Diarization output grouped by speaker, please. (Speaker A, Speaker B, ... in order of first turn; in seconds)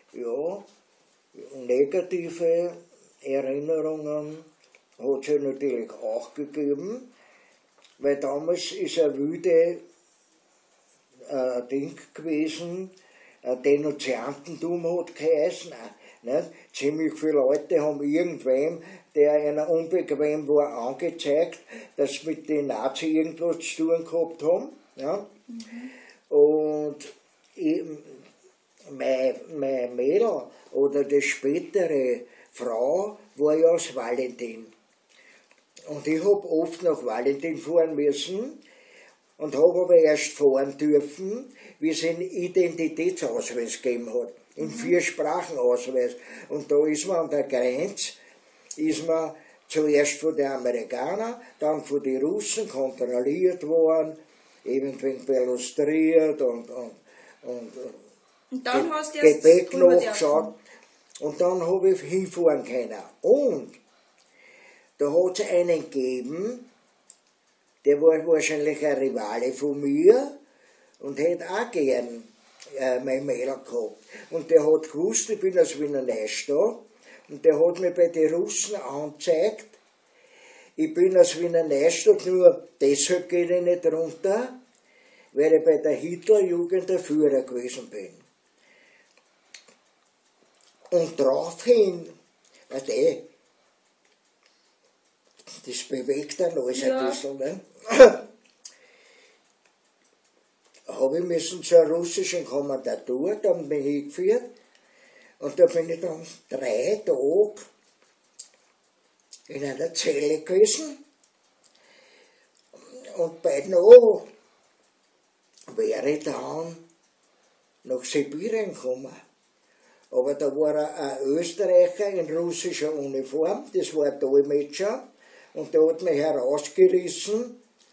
Speaker A: 0.1-0.7, 1.4-4.5, 5.0-7.1, 8.0-9.8, 11.3-12.9, 13.4-25.3, 26.3-28.2, 28.9-34.7, 35.9-38.6, 39.4-48.2, 48.8-58.0, 58.7-60.6, 61.2-63.8, 65.0-66.7, 67.8-70.3, 71.0-79.8, 80.8-84.6, 85.3-88.2, 90.9-92.1, 92.7-93.2, 95.6-98.2, 100.9-104.5, 105.4-107.7, 109.5-111.0, 112.8-114.3, 115.7-116.8, 117.8-119.2, 120.1-125.0, 125.5-127.6
Speaker B: 25.6-25.9, 44.6-44.9, 58.6-60.5, 96.7-97.2